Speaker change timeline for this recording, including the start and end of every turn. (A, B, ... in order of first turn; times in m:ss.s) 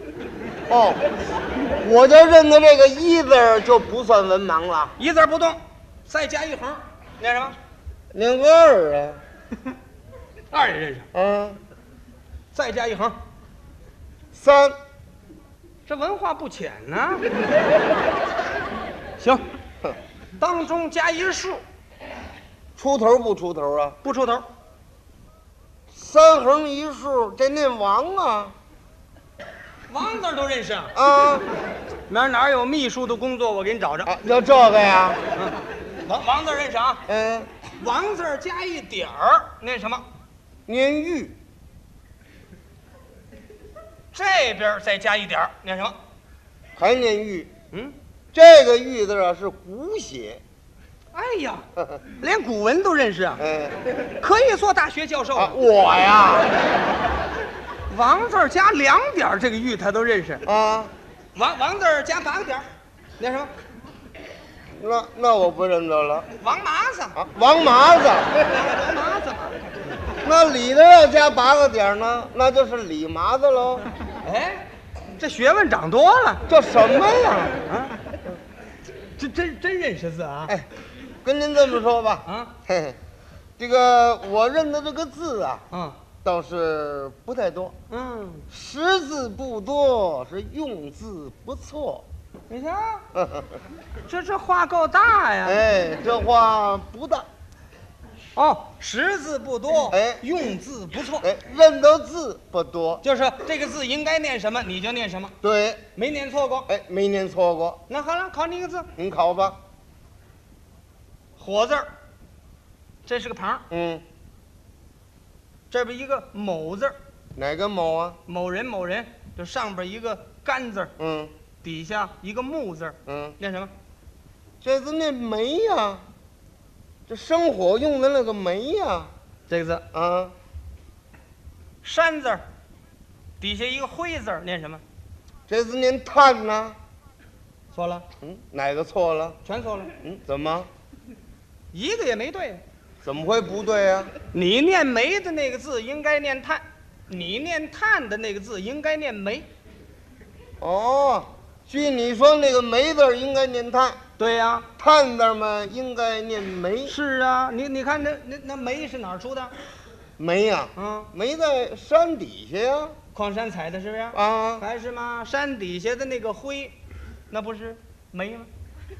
0:00.7-0:01.0 A
0:01.7-0:04.9 A
0:05.0-0:07.6 B
0:08.1-0:09.2 A
0:10.5-0:11.1 B
0:11.1-0:11.6 A
0:12.5-0:13.2 B
0:14.3-0:14.7 A
0:15.8-0:17.3 B
0:20.4-0:21.6 B
0:22.8-0:24.0 A
0:24.0-0:24.4 B
0:25.9-0:28.5 A
0:29.9-0:31.0 B
0:30.9-0:31.5 A
0:32.1-0:34.1 B
0:34.0-0:35.2 A
0:35.3-0:37.0 B
0:37.1-0:37.5 A
0:37.7-0:40.0 B
0:40.7-0:41.3 A
0:44.1-0:46.0 B
0:46.8-0:47.5 A
0:48.3-0:50.4 A
0:51.1-0:51.6 B
0:52.2-0:53.4 B
0:53.4-0:53.8 A
0:54.2-0:55.6 B
0:55.3-0:56.6 A
0:57.9-1:00.4 B
1:00.4-1:00.9 A
1:01.3-1:02.7 B
1:03.2-1:03.5 B
1:04.8-1:06.3 A
1:06.4-1:07.2 B
1:07.2-1:08.4 A
1:08.4-1:09.6 B
1:10.2-1:13.9 A
1:14.2-1:16.4 B
1:16.5-1:17.6 A
1:17.6-1:18.0 B
1:19.2-1:20.5 B
1:20.5-1:20.7 A
1:21.2-1:23.0 A
1:22.2-1:22.5 B
1:23.6-1:25.6 A
1:25.7-1:26.0 B
1:26.2-1:27.7 A
1:27.9-1:28.5 B
1:28.5-1:32.0 A
1:32.5-1:33.0 B
1:33.1-1:33.6 A
1:34.1-1:35.6 B
1:35.4-1:37.3 A
1:38.4-1:41.3 B
1:39.9-1:40.2 A
1:41.2-1:43.0 A
1:43.0-1:45.3 B
1:45.4-1:45.8 A
1:46.0-1:46.7 B
1:46.7-1:47.8 A
1:47.9-1:48.9 B
1:49.0-1:49.6 A
1:51.4-1:51.9 B
1:53.0-1:53.6 B
1:53.7-1:54.0 A
1:55.7-1:57.0 B
1:57.4-1:58.2 A
1:58.3-2:00.9 B
2:01.0-2:01.3 A
2:01.6-2:03.7 B
2:03.0-2:03.4 A
2:04.6-2:06.0 A
2:07.1-2:09.1 A
2:09.5-2:09.8 B
2:09.9-2:10.3 A
2:11.8-2:12.4 B
2:13.4-2:14.8 B
2:15.5-2:16.8 A
2:17.7-2:18.0 B
2:18.2-2:19.4 A
2:19.4-2:19.9 B
2:20.0-2:20.7 A
2:21.7-2:22.6 B
2:23.0-2:24.1 A
2:24.3-2:29.5 B
2:30.6-2:34.0 A
2:34.2-2:34.7 B
2:34.8-2:36.9 A
2:36.8-2:39.5 B
2:40.2-2:43.0 A
2:40.8-2:41.1 B
2:43.1-2:46.7 B
2:44.1-2:44.6 A
2:47.3-2:48.5 B